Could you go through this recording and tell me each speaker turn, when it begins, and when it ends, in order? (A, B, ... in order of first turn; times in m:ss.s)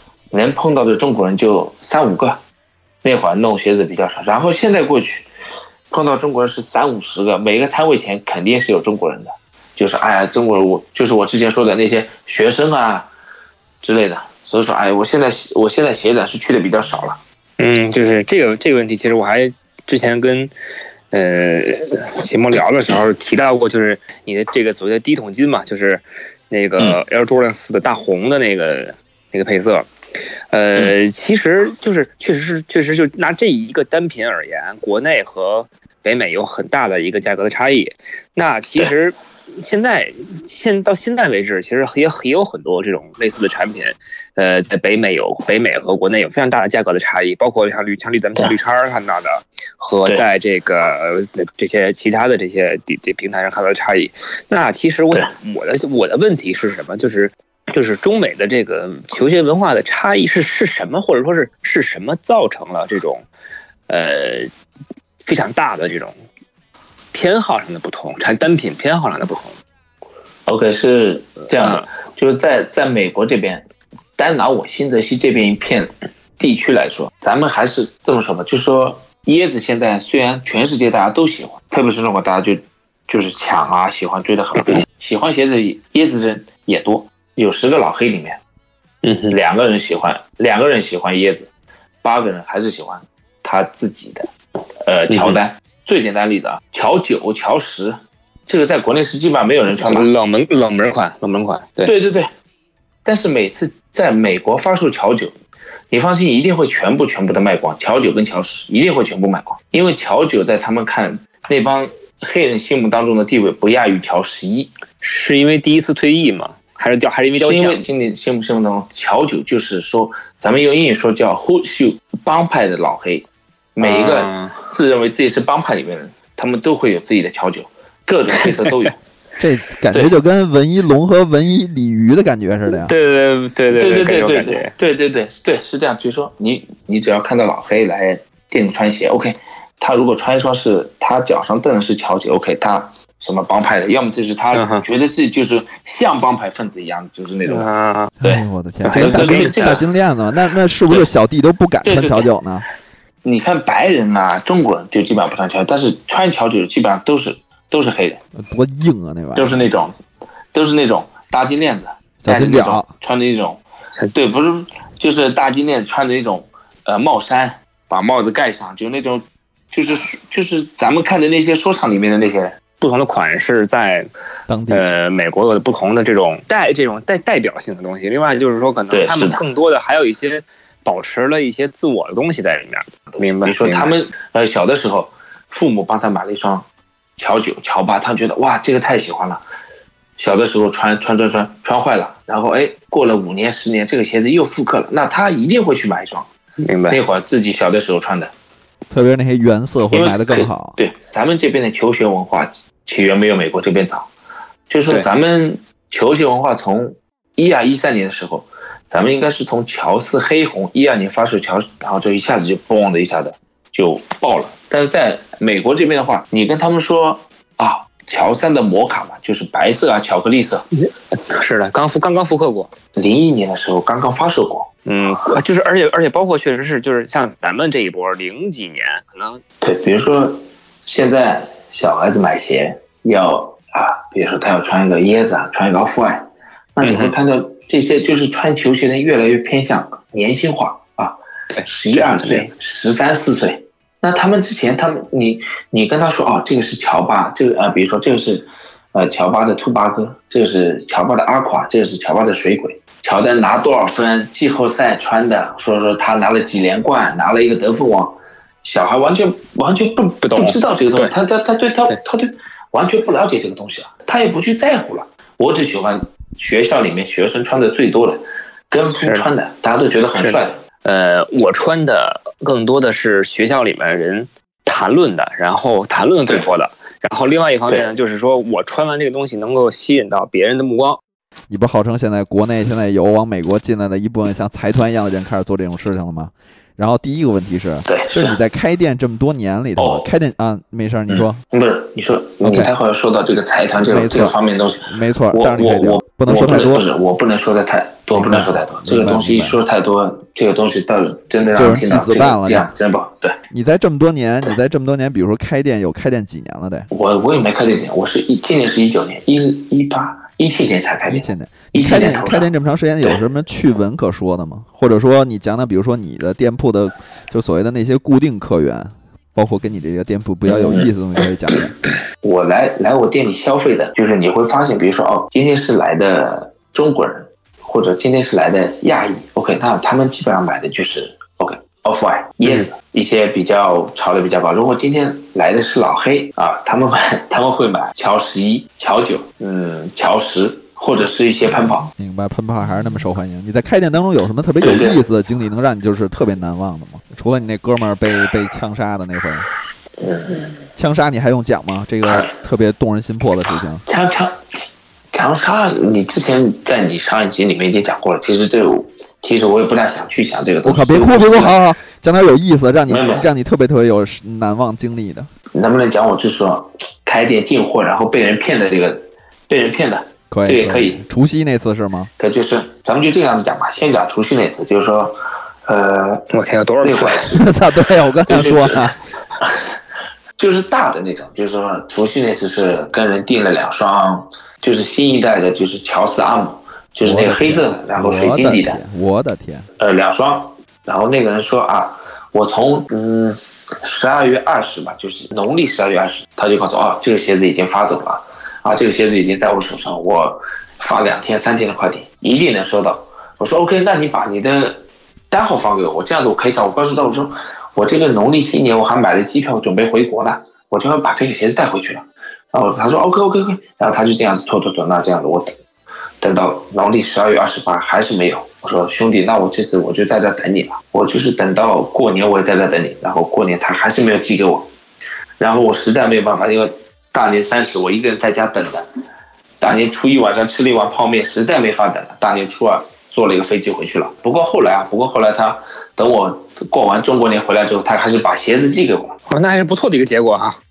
0:00.3-0:02.4 A
0:03.0-0:05.3 A
0:05.9-0:13.1 A
0:13.8-0:17.2 A
0:17.6-0:20.5 B
0:21.1-0:29.9 B
0:30.5-1:03.3 B
1:03.9-1:04.5 B
1:05.2-1:06.2 B
1:07.1-1:09.6 B
1:10.5-1:13.6 A
1:11.6-1:11.8 B
1:14.2-1:28.4 A
1:29.0-1:29.3 B
1:29.3-1:31.5 A
1:32.0-1:34.3 A
1:34.8-1:40.1 A
1:35.1-1:35.4 B
1:39.7-1:41.9 B
1:41.8-1:42.3 A
1:43.0-1:45.4 A
1:45.9-1:54.7 A
1:55.0-1:57.8 B
1:57.4-2:09.0 A
2:03.8-2:04.6 B
2:09.4-2:12.9 C
2:12.7-2:14.7 B
2:13.7-2:27.7 A
2:24.5-2:24.8 B
2:27.5-2:28.1 B
2:28.2-2:32.7 C
2:28.2-2:29.8 A
2:28.8-2:29.6 B
2:31.8-2:32.3 A
2:33.2-2:38.2 A
2:38.4-2:39.7 C
2:39.4-2:40.0 A
2:40.5-2:43.6 A
2:42.2-2:42.9 C
2:44.1-2:52.6 A
2:52.8-2:54.1 B
2:54.5-2:54.9 C
2:54.7-3:03.9 B
2:58.9-2:59.4 A
3:03.4-3:06.6 A
3:07.2-3:09.4 A
3:10.2-3:16.3 A
3:16.6-3:17.0 B
3:16.9-3:18.3 A
3:18.9-3:20.8 C
3:19.9-3:24.1 A
3:24.7-3:40.6 A
3:40.8-3:42.7 B
3:43.0-3:44.7 A
3:44.9-3:49.4 B
3:49.6-4:30.6 A
3:56.8-3:57.2 B
4:01.6-4:02.5 B
4:20.2-4:21.1 B
4:29.0-4:29.3 B
4:30.2-4:41.0 B
4:41.5-4:51.4 C
4:47.9-4:48.4 A
4:49.8-4:50.1 A
4:51.1-5:03.4 A
4:52.4-4:52.7 C
4:53.8-4:54.4 C
4:54.9-4:56.8 C
4:58.2-4:59.6 C
5:01.4-5:02.7 C
5:03.5-5:06.9 C
5:06.9-5:12.5 A
5:11.1-5:21.8 C
5:20.5-5:20.9 A
5:22.2-5:41.9 A
5:42.0-5:49.5 C
5:44.6-5:45.0 A
5:50.0-5:50.5 A
5:50.8-5:53.8 C
5:52.1-5:52.3 A
5:53.9-5:54.4 A
5:55.1-6:01.6 A
6:00.6-6:05.3 C
6:02.9-6:03.3 A
6:05.5-6:11.0 A
6:10.3-6:12.1 C
6:12.2-6:16.3 A
6:16.3-6:17.3 B
6:16.8-6:17.4 A
6:17.3-6:18.9 C
6:18.3-6:19.8 A
6:20.4-6:28.8 A
6:27.0-6:29.7 C
6:29.8-6:55.6 A
6:56.2-7:04.7 A
7:05.4-7:08.9 A
7:09.6-7:19.2 A
7:19.3-7:20.6 B